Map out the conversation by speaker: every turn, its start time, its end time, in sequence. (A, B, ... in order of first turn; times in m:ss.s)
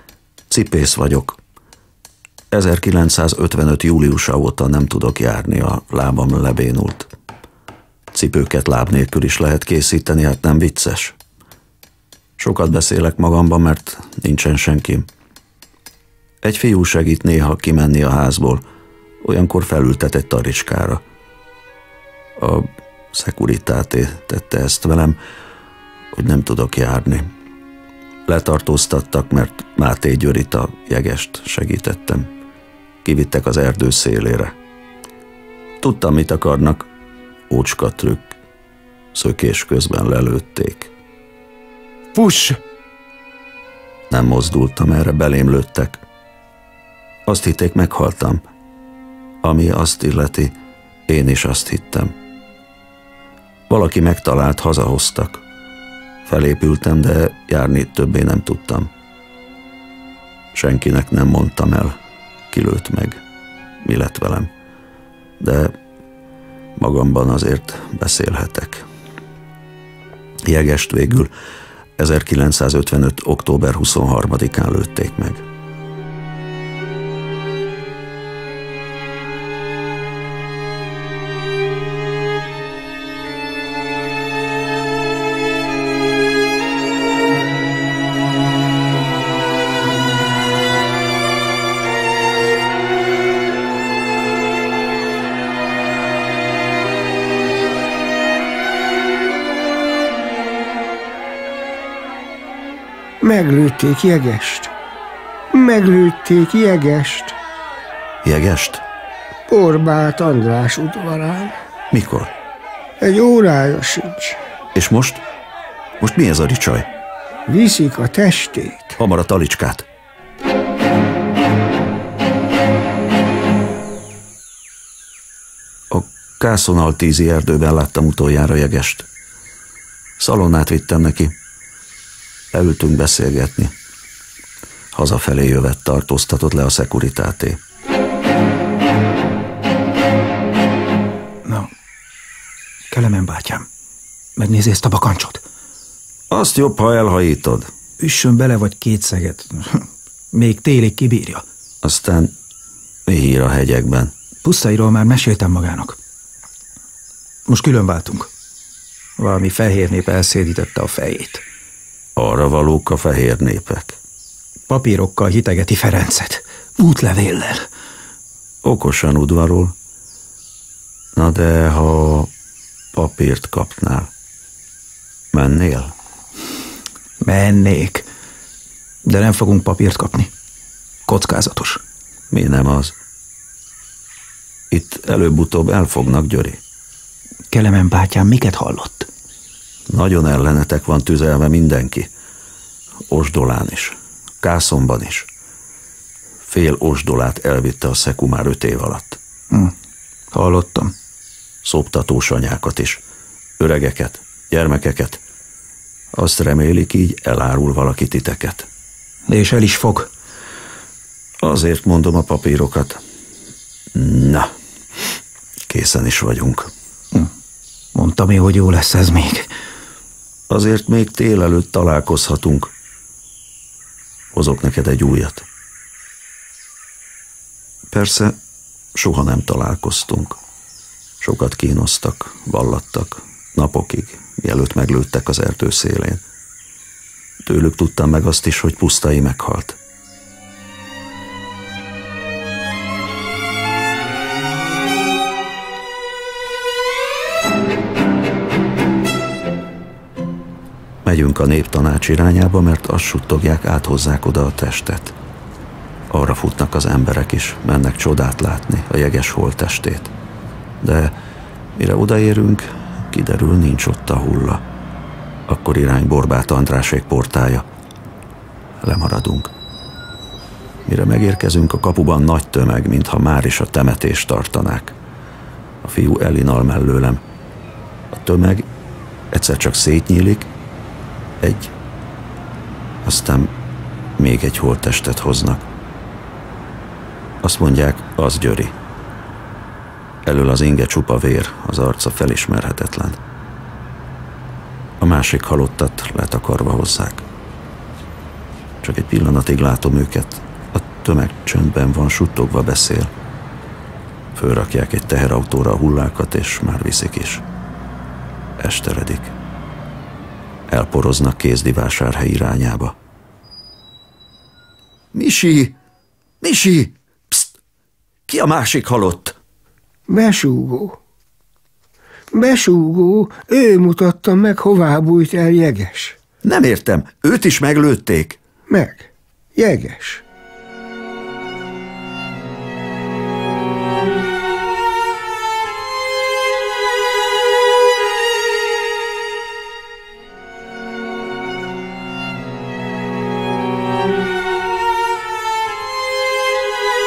0:00.5-0:01.4 A
0:02.5-0:07.1 A
0:08.1-0:11.2 A
0:12.4-0:15.1 A
0:16.4-0:18.6 A
0:19.2-0:21.0 A
0:22.4-0:25.2 A
0:26.1-0:27.3 A
0:28.2-0:32.3 A
0:33.0-0:34.5 A
0:35.8-0:36.9 A
0:37.5-0:38.4 A
0:39.1-0:40.9 A
0:44.1-0:46.0 A
0:47.2-0:48.4 A
0:49.4-0:50.5 A
0:51.1-0:52.1 A
0:53.7-0:55.4 A
0:56.2-0:58.9 A
1:00.5-1:02.0 A
1:02.5-1:03.2 A
1:03.8-1:04.5 A
1:05.4-1:05.8 A
1:06.8-1:08.8 A
1:10.4-1:11.3 A
1:12.0-1:15.4 A
1:43.2-1:44.7 B
1:45.5-1:47.4 B
1:48.2-1:48.8 A
1:49.5-1:51.6 B
1:51.9-1:52.3 A
1:53.0-1:54.4 B
1:54.7-1:55.2 A
1:56.0-1:56.9 A
1:57.5-1:59.0 B
1:59.0-1:59.9 A
2:05.9-2:09.1 A
2:10.2-2:11.3 A
2:12.5-2:13.7 A
2:14.9-2:17.6 A
2:22.9-2:23.7 C
2:24.4-2:25.4 C
2:26.3-2:27.7 A
2:28.0-2:31.4 C
2:31.8-2:32.3 A
2:33.1-2:34.1 A
2:34.4-2:36.0 C
2:37.5-2:38.3 C
2:39.2-2:41.4 C
2:42.2-2:44.0 A
2:44.7-2:47.6 C
2:48.6-2:49.7 A
2:51.2-2:52.3 A
2:52.9-2:54.1 A
2:55.3-2:55.9 A
2:57.2-2:58.0 C
2:59.0-3:00.3 C
3:01.0-3:01.8 C
3:02.3-3:02.9 A
3:04.7-3:06.6 A
3:07.5-3:09.1 C
3:09.9-3:12.1 A
3:13.1-3:15.3 A
3:16.4-3:19.2 A
3:20.3-3:20.9 C
3:21.6-3:23.0 A
3:23.6-3:25.2 A
3:26.1-3:28.7 A
3:29.3-3:30.1 C
3:31.4-3:33.0 A
3:33.9-3:34.5 A
3:35.7-3:36.7 A
3:37.9-3:39.5 C
3:40.5-3:42.7 A
3:44.3-3:45.4 A
3:47.9-3:48.4 A
3:48.9-3:50.4 A
3:51.2-3:56.2 A
3:57.4-3:59.8 A
4:11.0-4:15.1 A
4:16.1-4:20.1 A
4:20.8-4:21.1 A
4:21.7-4:24.6 A
4:25.5-4:27.6 A
4:28.8-4:29.5 A
4:30.8-4:35.0 A
4:35.8-4:37.2 A
4:38.1-4:38.7 A
4:39.3-4:40.5 A
4:41.4-4:41.7 A
4:43.0-4:43.5 A
4:44.2-4:45.6 A
4:47.4-4:48.7 A
4:50.2-4:53.2 A
4:55.0-4:57.2 A
4:58.8-5:03.1 A
5:04.3-5:07.4 A
5:08.6-5:09.3 A
5:10.7-5:12.9 A
5:15.1-5:15.8 A
5:16.4-5:17.5 A
5:18.3-5:19.4 A
5:20.1-5:21.0 B
5:22.3-5:26.2 B
5:26.4-5:28.4 A
5:28.7-5:30.2 B